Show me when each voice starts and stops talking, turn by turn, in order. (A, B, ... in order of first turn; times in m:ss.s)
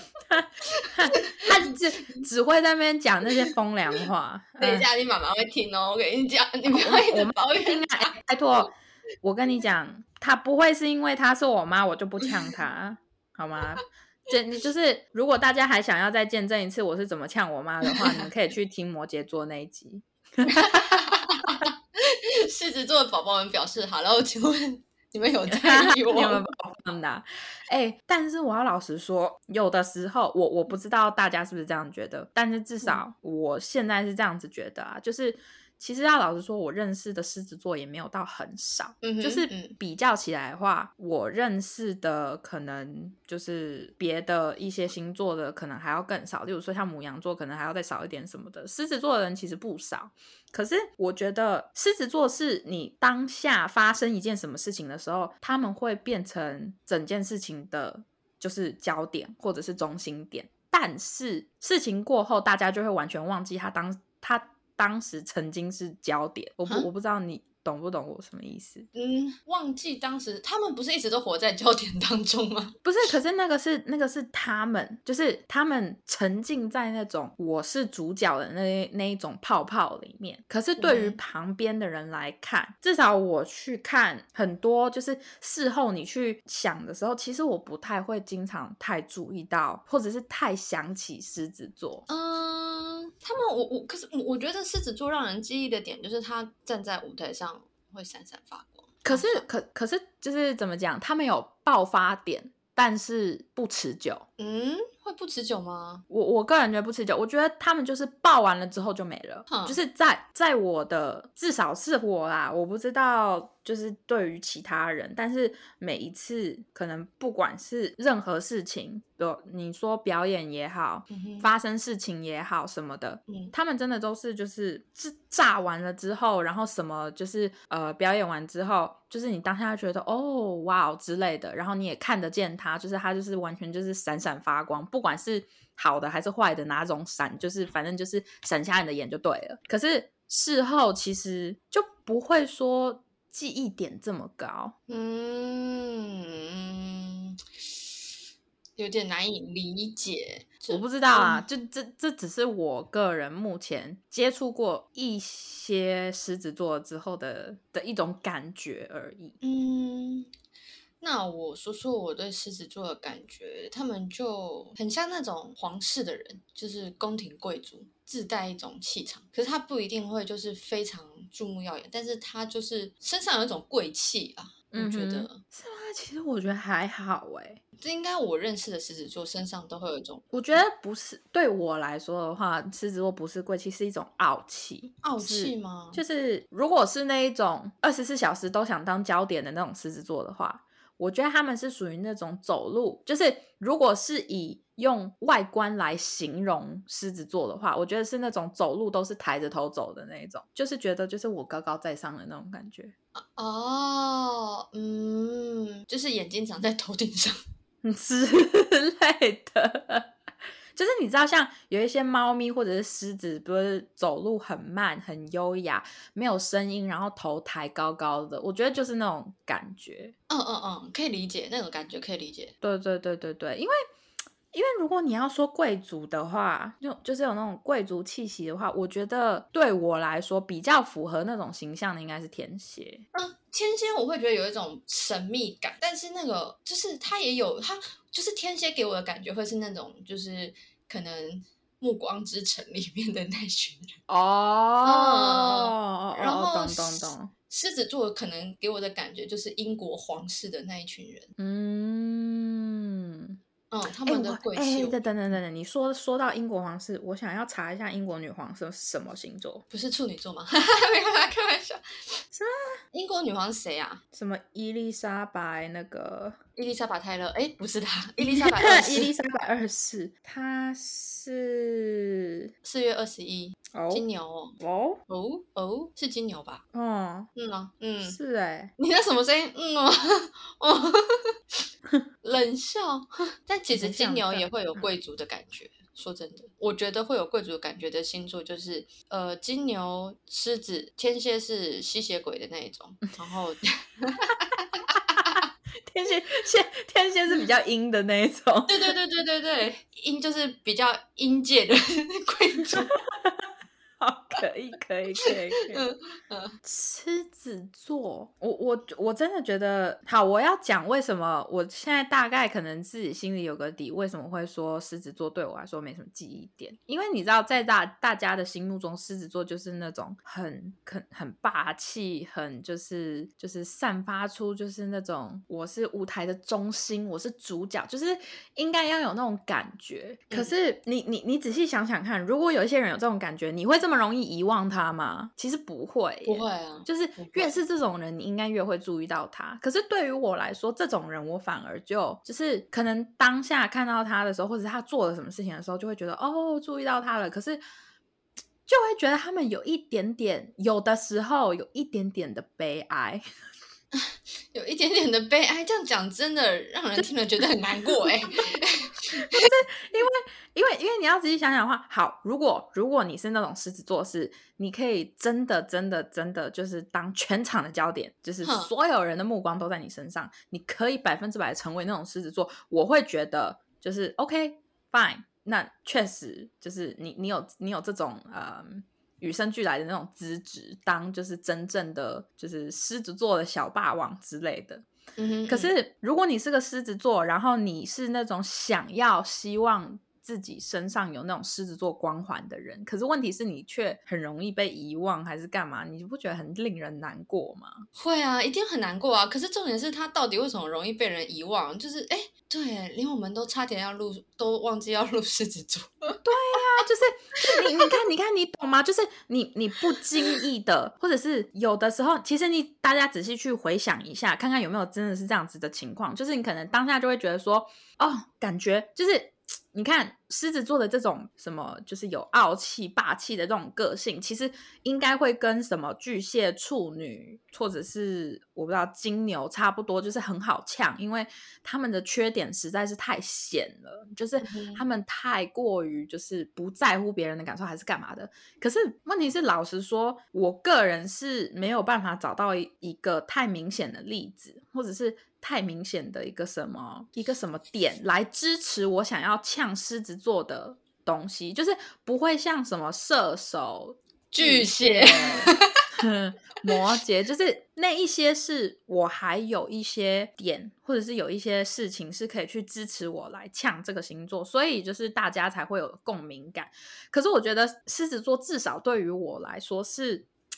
0:00.3-0:04.9 A
0:00.7-0:01.4 B
0:04.6-0:08.2 B
0:06.7-0:08.7 A
0:09.2-0:21.0 A
0:20.4-0:26.4 B
0:25.5-1:08.9 A
0:39.0-0:39.8 B
1:08.9-1:12.8 B
1:12.8-1:32.0 A
1:20.8-1:21.2 B
1:32.1-1:39.4 B
1:39.0-1:44.2 A
1:44.4-1:46.0 B
1:46.1-2:24.7 A
1:49.5-1:49.8 B
2:01.1-2:01.5 B
2:24.9-2:27.4 B
2:28.8-2:31.4 B
2:30.7-2:39.4 A
2:39.4-2:40.3 B
2:41.0-2:55.4 B
2:54.7-2:57.6 A
2:57.8-3:00.3 B
3:00.3-3:22.9 A
3:05.0-3:06.0 B
3:23.3-3:27.4 B
3:27.8-3:30.1 A
3:30.7-3:40.1 A
3:40.3-3:42.5 B
3:42.6-3:43.8 A
3:44.5-3:53.0 A
3:53.1-4:04.0 B
4:04.1-4:07.3 A
4:04.8-4:11.3 B
4:11.4-4:13.4 A
4:13.7-4:15.0 B
4:14.0-4:19.6 A
4:19.7-4:21.8 B
4:22.3-4:22.7 A
4:22.9-4:24.0 B
4:24.1-4:26.4 A
4:26.6-4:29.1 B
4:28.2-4:32.5 A
4:32.6-4:36.6 B
4:33.7-4:34.0 A
4:34.6-4:35.0 A
4:36.7-4:37.3 A
4:37.3-4:38.2 B
4:38.0-4:38.7 A
4:38.8-4:41.3 B
4:42.2-4:55.4 B
4:43.7-4:44.5 A
4:55.8-4:58.9 A
4:58.7-5:03.0 B
5:03.1-5:03.4 A
5:04.0-5:05.8 A
5:05.2-5:06.6 B
5:06.6-5:47.6 A
5:36.2-5:37.6 B
5:48.7-5:53.2 A
5:53.9-5:59.4 B
5:59.1-6:24.8 A
6:08.4-6:08.7 B
6:25.2-6:25.7 B
6:25.5-6:37.9 A
6:38.0-6:46.2 B
6:46.2-7:50.3 A
7:14.4-7:14.8 B
7:34.3-7:35.7 B